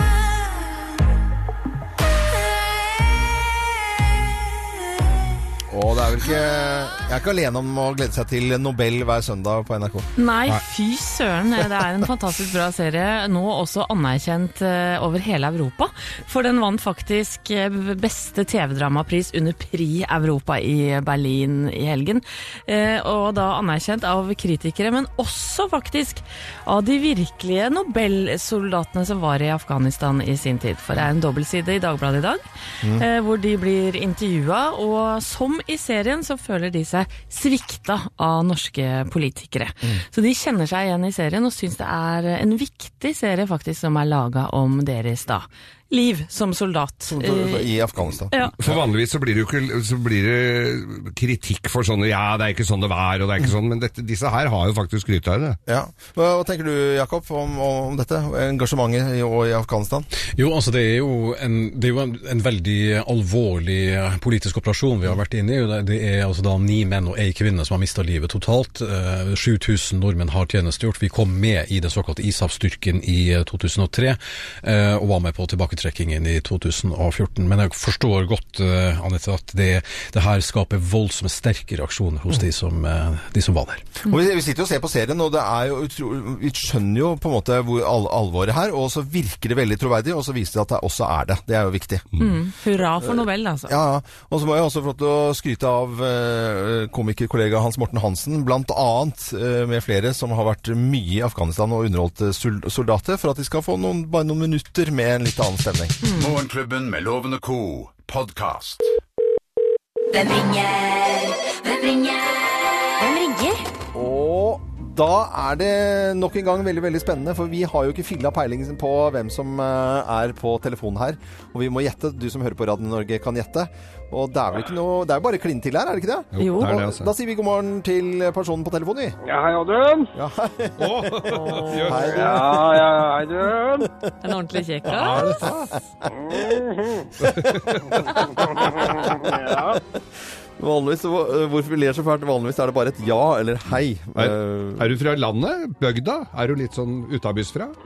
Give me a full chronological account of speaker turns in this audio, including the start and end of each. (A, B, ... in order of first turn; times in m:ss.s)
0:05.7-0:10.1 A
0:10.2-0:47.7 B
0:47.1-0:48.7 A
0:48.6-0:55.6 C
0:55.6-1:00.1 A
1:00.3-1:24.0 D
1:24.0-1:32.1 A
1:32.2-1:33.8 B
1:33.0-1:46.0 A
1:46.0-1:49.0 E
1:50.1-1:53.6 F
1:53.9-2:09.2 A
2:06.3-2:07.1 C
2:06.4-2:06.7 B
2:09.2-2:10.1 G
2:10.1-2:13.0 A
2:10.8-2:12.6 C
2:11.2-2:12.0 B
2:12.0-2:13.9 G
2:13.8-2:14.1 A
2:14.2-2:15.3 B
2:14.8-2:15.8 C
2:15.3-2:16.4 A
2:16.1-2:17.1 G
2:17.2-2:18.2 C
2:17.3-2:17.7 A
2:18.0-2:19.8 G
2:18.6-2:19.8 A
2:20.6-2:24.9 A
2:24.2-2:27.7 C